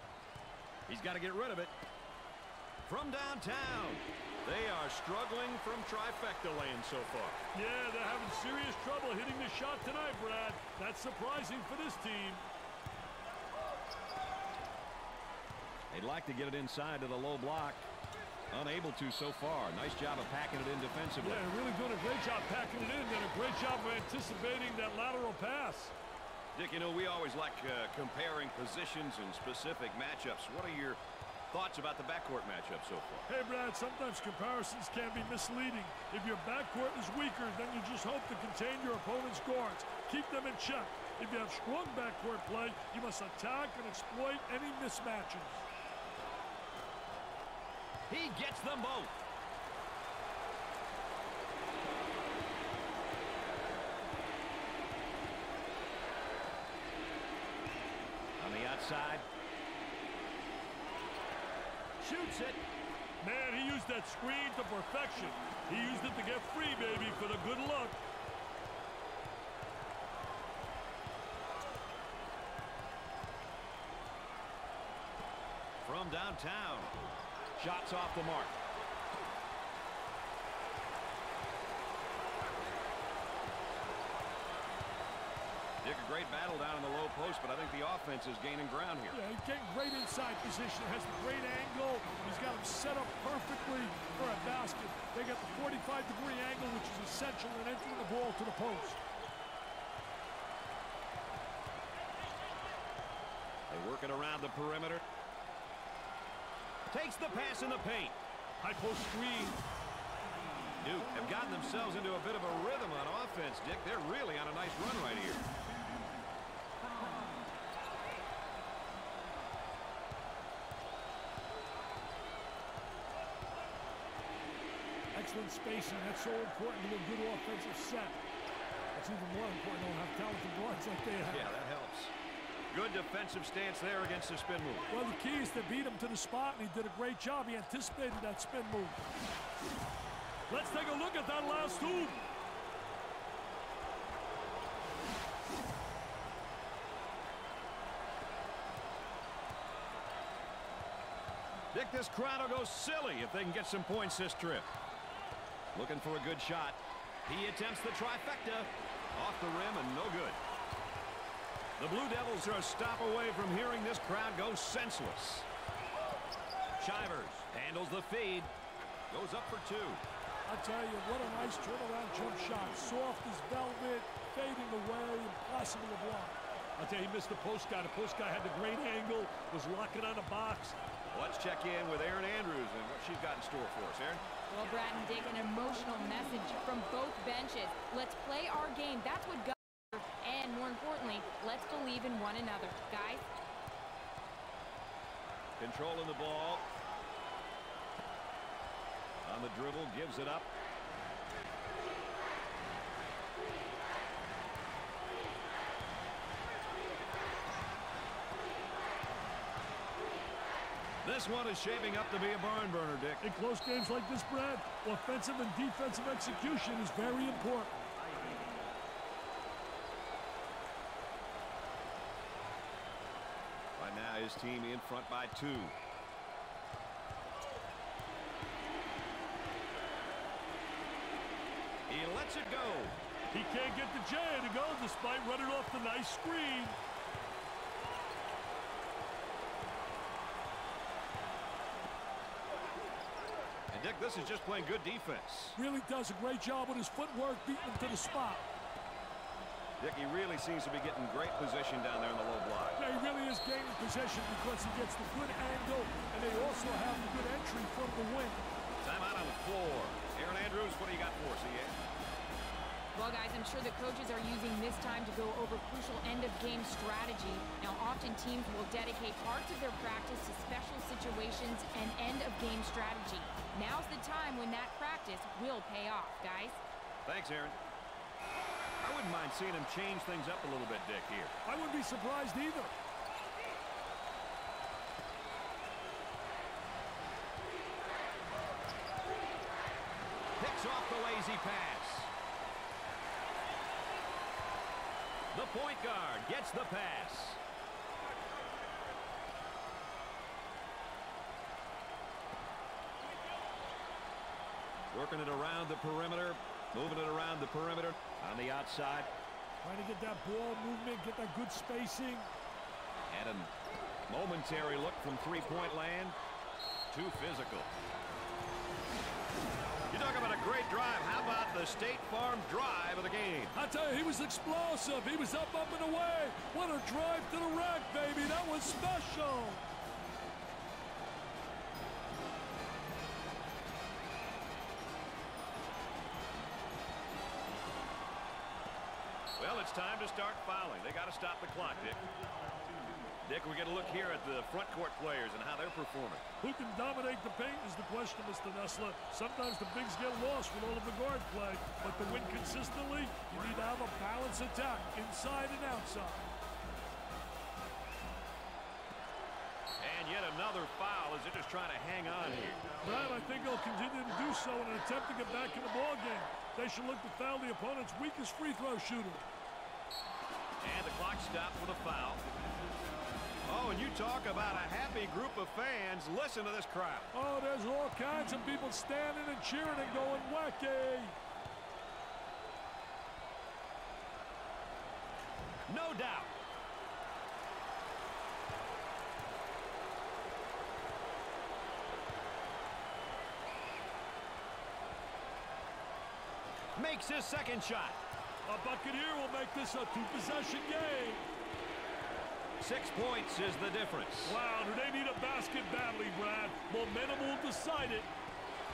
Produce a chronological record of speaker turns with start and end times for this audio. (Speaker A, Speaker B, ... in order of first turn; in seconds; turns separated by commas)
Speaker A: 0.9-1.7, Speaker A: 2.9-7.4, Speaker B: 7.5-12.4, Speaker A: 15.9-17.9, Speaker A: 18.5-21.4, Speaker B: 21.2-25.9, Speaker A: 26.5-31.0, Speaker A: 31.5-33.3, Speaker B: 33.3-45.6, Speaker A: 48.1-49.1, Speaker A: 58.4-59.2, Speaker A: 62.0-62.6, Speaker B: 63.2-68.0, Speaker A: 75.8-77.0, Speaker A: 77.5-78.6, Speaker A: 85.8-89.2, Speaker B: 89.1-99.0, Speaker A: 103.7-105.0, Speaker A: 106.9-108.2, Speaker B: 108.6-109.6, Speaker A: 110.8-115.4, Speaker B: 125.1-128.2, Speaker B: 128.9-131.5, Speaker A: 131.3-132.1, Speaker A: 132.7-134.9, Speaker B: 134.9-139.0, Speaker B: 140.5-142.2, Speaker A: 151.7-154.7, Speaker A: 155.7-160.4, Speaker A: 161.8-165.5, Speaker A: 166.8-168.5, Speaker A: 169.1-170.0, Speaker B: 170.5-180.8, Speaker A: 181.1-184.2, Speaker C: 184.5-193.3, Speaker A: 195.6-196.6, Speaker A: 199.2-200.5, Speaker A: 211.0-213.2, Speaker B: 213.2-217.9, Speaker A: 223.8-225.8, Speaker A: 231.9-233.0, Speaker B: 233.3-236.8, Speaker A: 243.7-245.6, Speaker B: 245.6-248.5, Speaker A: 249.8-252.8, Speaker B: 252.8-258.4, Speaker A: 258.8-261.8, Speaker C: 262.9-276.6, Speaker A: 277.0-277.6, Speaker A: 278.8-281.3, Speaker B: 281.4-282.7, Speaker A: 290.4-292.1, Speaker A: 295.3-297.4, Speaker A: 304.9-309.1, Speaker B: 309.6-312.3, Speaker A: 313.1-313.5, Speaker A: 314.1-316.1, Speaker A: 316.9-317.7, Speaker A: 319.9-323.6, Speaker B: 323.5-329.6, Speaker A: 339.4-342.0, Speaker A: 343.2-346.2, Speaker B: 346.4-356.3, Speaker A: 359.8-362.6, Speaker B: 362.8-369.2, Speaker A: 370.6-372.2, Speaker A: 373.4-377.1, Speaker B: 377.1-381.1, Speaker A: 385.7-386.3, Speaker A: 396.8-398.0, Speaker B: 398.5-401.2, Speaker A: 402.6-404.4, Speaker B: 404.2-408.1